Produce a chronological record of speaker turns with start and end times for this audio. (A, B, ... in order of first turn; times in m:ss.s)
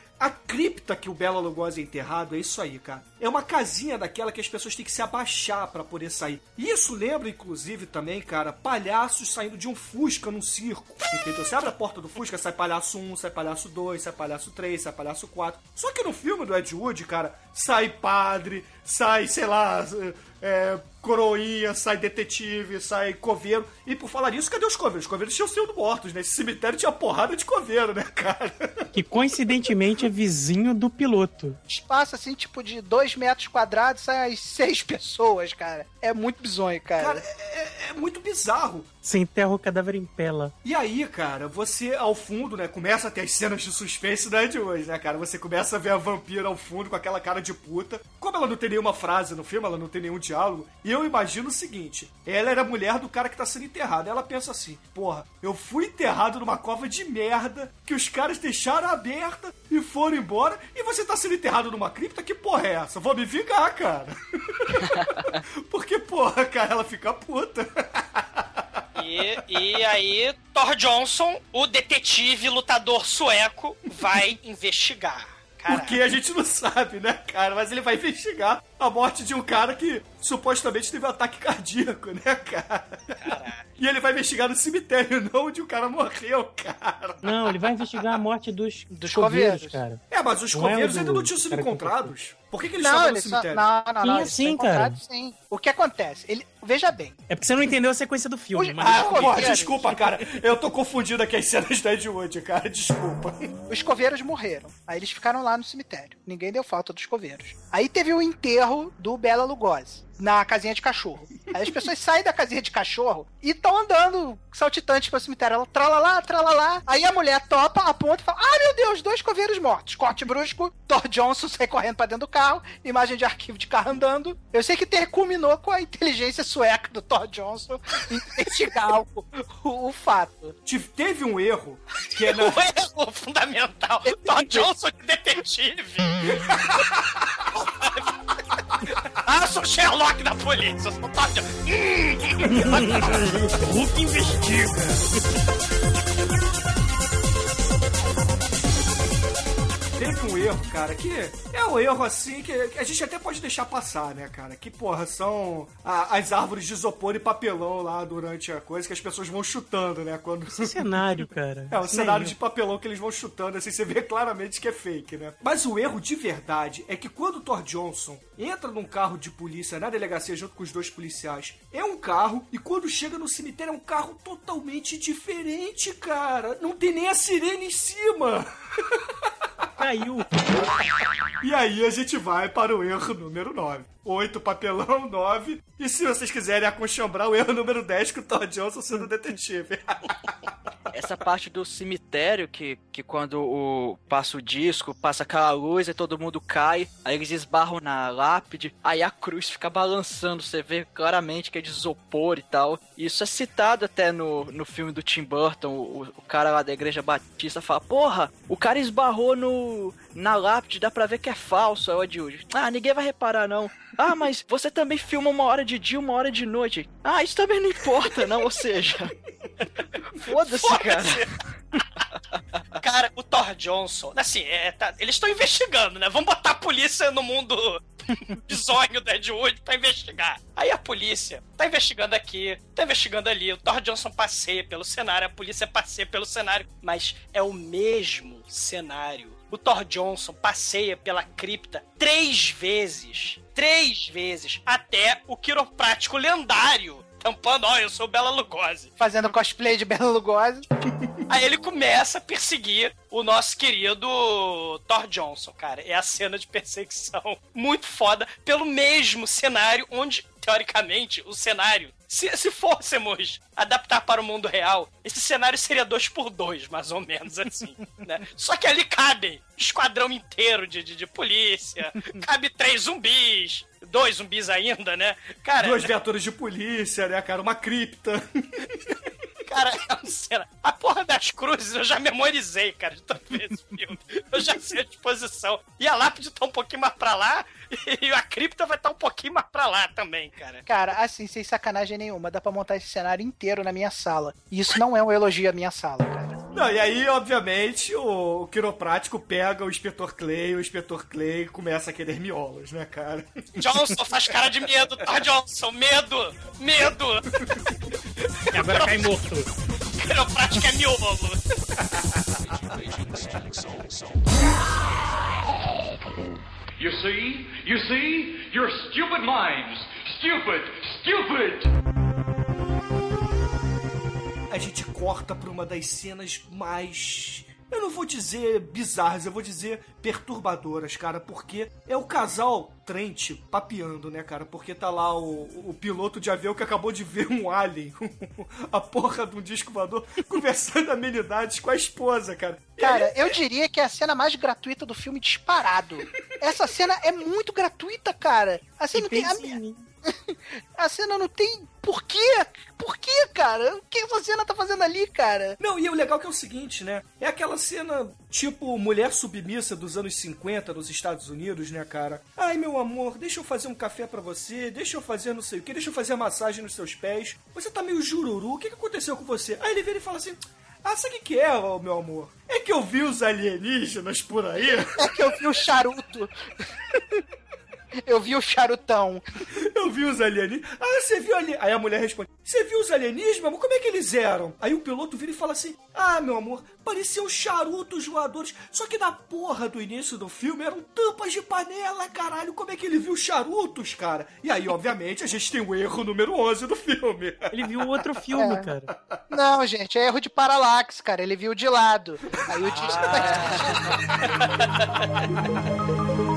0:00.2-0:28.9 A
0:28.9-0:31.6 B
0:31.7-0:37.2 C
0:37.0-0:38.9 A
0:39.0-0:40.5 B
0:40.6-1:08.6 A
1:09.0-1:16.0 D
1:15.7-1:23.0 A
1:23.2-1:23.6 D
1:23.8-1:28.1 A
1:27.2-1:32.1 B
1:28.9-1:29.8 C
1:30.1-1:33.6 A
1:32.8-1:37.2 C
1:34.0-1:35.0 B
1:37.3-1:40.1 B
1:38.5-1:39.8 C
1:38.8-1:43.5 A
1:43.7-2:10.6 C
2:10.7-2:12.6 A
2:12.2-2:16.2 D
2:14.1-2:14.7 C
2:16.4-2:16.9 A
2:17.5-2:18.1 D
2:19.2-2:22.7 D
2:22.4-2:25.0 B
2:22.8-2:23.2 A
2:30.0-2:41.1 A
2:40.5-2:42.4 B
2:41.7-2:59.1 A
2:59.8-3:00.7 B
3:01.4-3:10.3 A
3:10.9-3:39.1 E
3:40.2-3:41.2 E
3:40.5-3:41.3 D
3:42.8-4:08.9 D
4:09.0-4:10.7 C
4:11.3-4:35.9 D
4:35.6-4:39.0 A
4:39.5-4:50.6 D
4:50.7-4:56.4 C
4:56.5-5:03.4 A
5:03.6-5:07.3 D
5:08.5-5:09.5 B
5:08.6-5:09.0 D
5:10.0-5:11.4 D
5:16.8-5:21.7 F
5:24.5-5:43.3 A
5:42.8-5:55.6 C
5:48.9-5:49.9 B
5:55.6-6:15.3 A
6:15.0-6:16.3 C
6:18.0-6:19.2 C
6:19.6-6:38.0 A
6:37.5-6:38.9 B
6:38.4-6:38.7 C
6:39.3-6:43.8 C
6:42.7-6:43.8 A
6:42.8-6:43.5 D
6:44.4-6:45.1 D